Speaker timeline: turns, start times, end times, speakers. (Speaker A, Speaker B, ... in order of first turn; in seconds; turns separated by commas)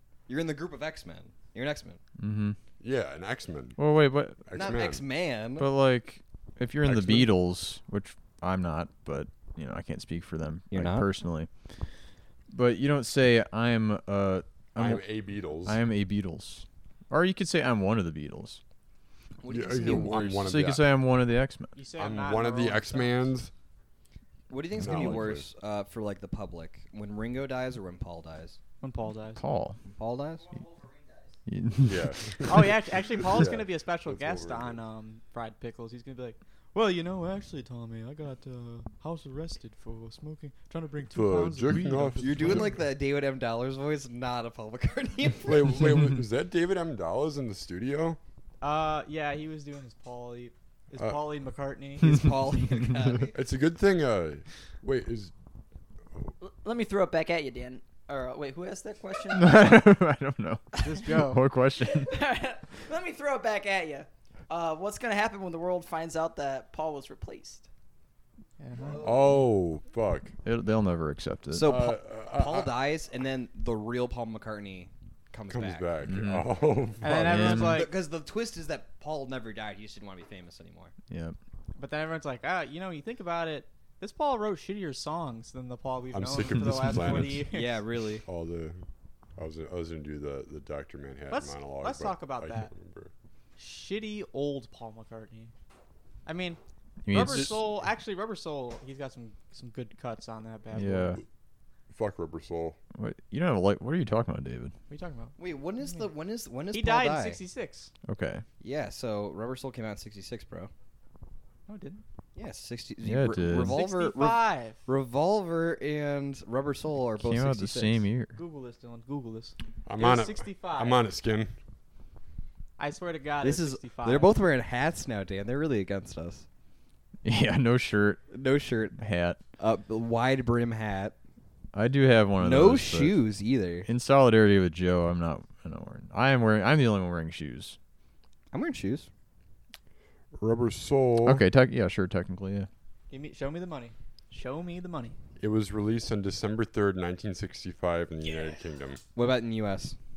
Speaker A: 0.3-2.0, Speaker B: 2.2-2.6, Speaker C: 2.8-3.8, Speaker B: 3.8-4.5, Speaker C: 4.5-5.0, Speaker A: 4.5-5.7, Speaker B: 5.6-11.5, Speaker C: 6.8-7.3, Speaker A: 10.7-11.1, Speaker B: 12.5-15.0, Speaker C: 14.8-15.8, Speaker B: 15.6-18.6, Speaker A: 19.4-20.4, Speaker C: 19.5-20.8, Speaker B: 19.8-21.7, Speaker D: 21.7-23.3, Speaker C: 22.0-23.5, Speaker A: 24.5-28.6, Speaker C: 24.8-25.4, Speaker D: 28.8-29.4, Speaker B: 29.4-29.8, Speaker A: 29.9-30.5, Speaker B: 31.5-32.3, Speaker C: 31.8-34.8, Speaker D: 32.4-42.8, Speaker C: 41.1-42.8, Speaker A: 42.2-46.0, Speaker C: 45.4-48.2, Speaker D: 48.6-52.2, Speaker A: 52.0-53.4, Speaker B: 52.1-53.2, Speaker C: 53.3-55.3, Speaker E: 56.4-59.9, Speaker B: 59.3-62.1, Speaker D: 60.8-61.4, Speaker E: 61.8-67.7, Speaker D: 68.6-69.1, Speaker A: 68.8-69.4, Speaker C: 69.0-70.3, Speaker B: 70.4-71.7, Speaker A: 71.5-75.9, Speaker C: 71.6-72.8, Speaker C: 75.5-77.7, Speaker B: 76.0-76.5, Speaker D: 77.0-77.9, Speaker B: 77.2-77.9, Speaker A: 77.5-80.9, Speaker B: 81.1-81.3, Speaker D: 81.8-87.8, Speaker C: 86.1-87.5, Speaker A: 87.4-88.2, Speaker C: 88.2-88.8, Speaker C: 89.4-93.1, Speaker D: 91.3-92.7, Speaker D: 93.6-95.5, Speaker D: 96.2-101.2, Speaker B: 97.0-97.7, Speaker B: 100.7-101.2, Speaker C: 101.9-102.8, Speaker B: 102.9-104.7, Speaker D: 104.9-106.1, Speaker A: 105.4-107.4, Speaker D: 106.7-107.9, Speaker B: 108.0-108.4, Speaker A: 108.6-110.7, Speaker D: 111.7-112.0, Speaker A: 112.3-118.0, Speaker B: 113.0-113.8, Speaker D: 113.5-114.8, Speaker B: 117.2-118.3, Speaker D: 118.3-121.0, Speaker C: 119.8-121.5, Speaker D: 122.8-124.3, Speaker A: 123.4-126.5, Speaker B: 127.2-128.2, Speaker A: 128.3-129.0, Speaker B: 129.0-129.4, Speaker A: 129.6-131.2, Speaker B: 131.7-133.2, Speaker A: 132.4-133.9, Speaker B: 133.8-137.8, Speaker A: 138.5-139.1, Speaker C: 140.3-141.4, Speaker B: 141.2-142.7, Speaker D: 143.1-145.2, Speaker C: 145.4-149.0, Speaker A: 149.1-149.9